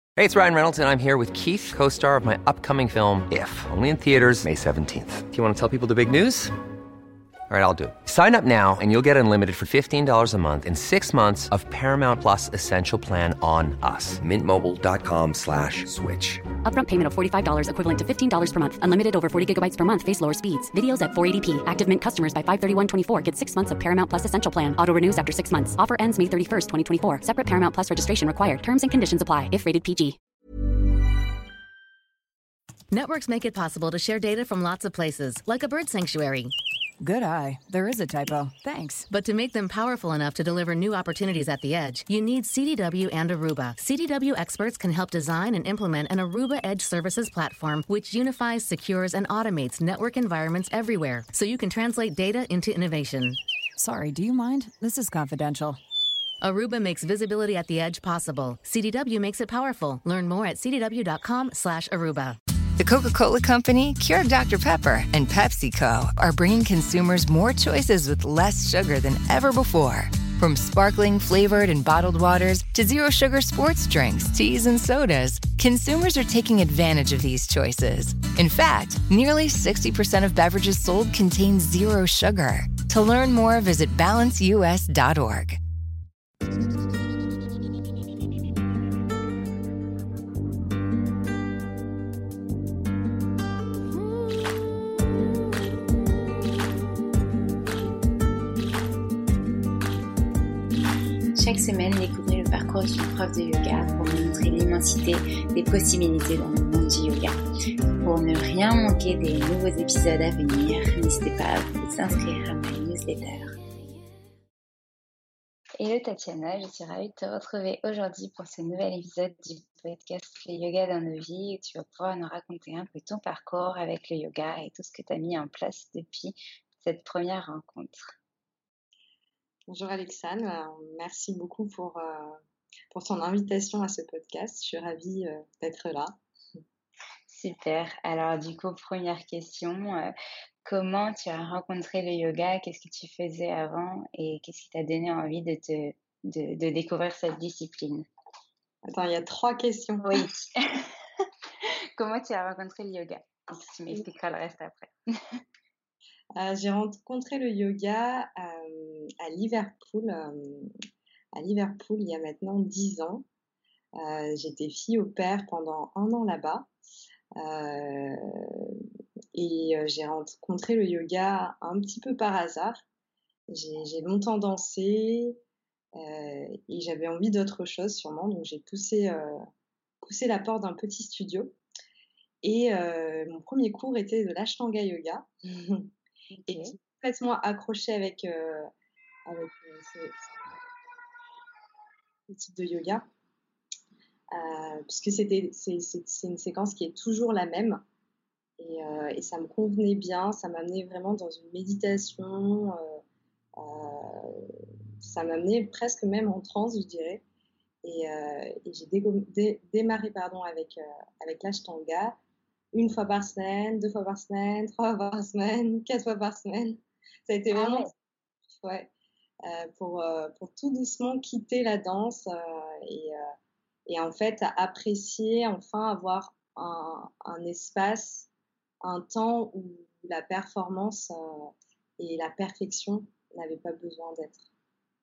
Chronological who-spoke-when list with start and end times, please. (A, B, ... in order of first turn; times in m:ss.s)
0:00.2-0:06.6 A
0:07.5-0:16.4 A
0:16.6-0:30.2 B
0:32.9-0:36.5 C
0:37.0-0:39.0 D
0:39.1-0:53.4 C
0:53.8-0:55.6 D
0:56.4-1:02.4 C
1:02.8-1:25.6 E
1:41.3-1:47.4 F
1:48.0-1:53.5 F
1:55.8-2:08.1 F
2:09.7-2:12.4 G
2:12.9-2:16.2 G
2:17.3-2:20.1 F
2:20.6-2:28.1 F
2:28.8-2:30.2 G
2:30.0-2:34.9 F
2:36.4-2:40.7 G
2:41.3-2:43.2 G
2:44.0-2:46.7 G
2:47.4-2:52.8 G
2:53.5-2:55.4 G
2:56.0-2:59.4 G
3:00.0-3:01.6 G
3:02.4-3:05.9 G
3:06.5-3:06.7 F
3:06.5-3:08.7 G
3:09.3-3:10.2 G
3:12.3-3:13.1 G
3:14.3-3:17.8 G
3:18.6-3:23.0 G
3:23.6-3:27.2 G
3:27.8-3:32.2 G
3:32.7-3:37.9 G
3:37.6-3:37.9 F
3:38.6-3:38.9 G
3:39.4-3:43.3 G
3:43.9-3:48.3 G
3:48.8-3:54.5 G